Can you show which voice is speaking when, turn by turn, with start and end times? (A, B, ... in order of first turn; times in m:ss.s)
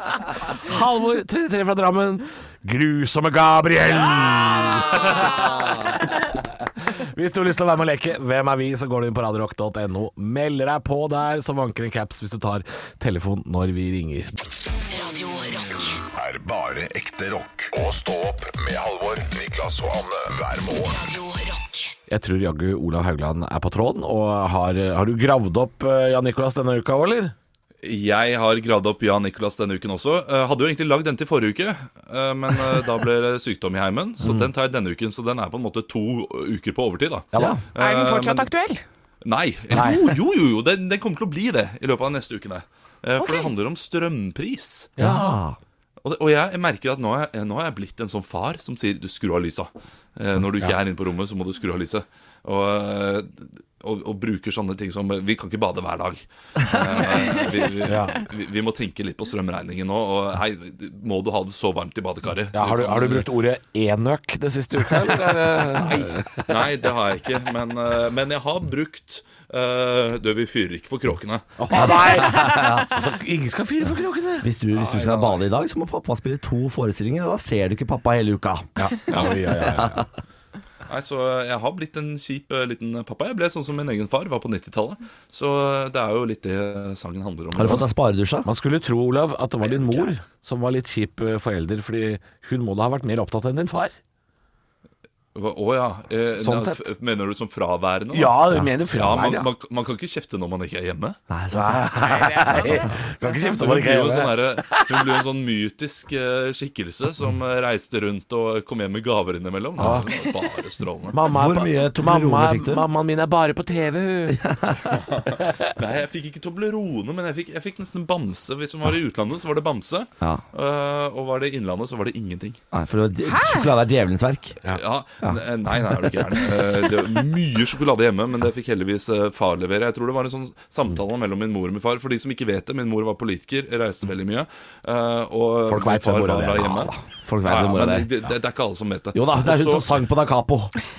0:00.6-0:06.2 A
0:07.0-0:14.4 A
0:14.7-0:16.0 B
0:16.1-0:21.0 C
0:20.7-0:21.9 B
0:22.1-0:27.3 A
0:27.8-0:38.5 D
0:34.2-0:34.5 A
0:37.3-0:37.6 A
0:37.4-0:37.6 E
0:37.8-0:38.8 F
0:39.2-0:44.9 D
0:39.7-0:40.1 A
0:43.2-0:43.5 F
0:45.0-0:45.3 A
0:45.0-0:45.6 E
0:46.0-1:03.3 D
0:57.8-0:58.2 A
1:02.5-1:06.6 A
1:05.8-1:11.5 D
1:11.6-1:14.5 A
1:11.7-1:12.9 E
1:14.4-1:18.9 E
1:14.7-1:15.4 D
1:18.8-1:20.0 A
1:19.6-1:20.0 E
1:20.9-1:27.8 D
1:27.5-1:28.5 E
1:28.4-1:33.9 A
1:35.3-1:38.4 D
1:36.3-1:36.8 A
1:38.1-1:39.5 A
1:38.9-1:41.2 D
1:41.3-1:43.0 E
1:41.5-1:45.1 A
1:42.0-1:43.5 F
1:43.6-1:51.2 D
1:49.8-1:50.1 A
1:51.1-1:54.4 A
1:51.2-1:52.9 E
1:54.3-1:55.0 E
1:54.9-2:02.6 D
2:02.7-2:04.6 E
2:03.3-2:03.7 F
2:04.7-2:16.9 D
2:15.7-2:16.9 A
2:16.7-2:18.1 E
2:17.4-2:19.9 D
2:19.1-2:20.8 E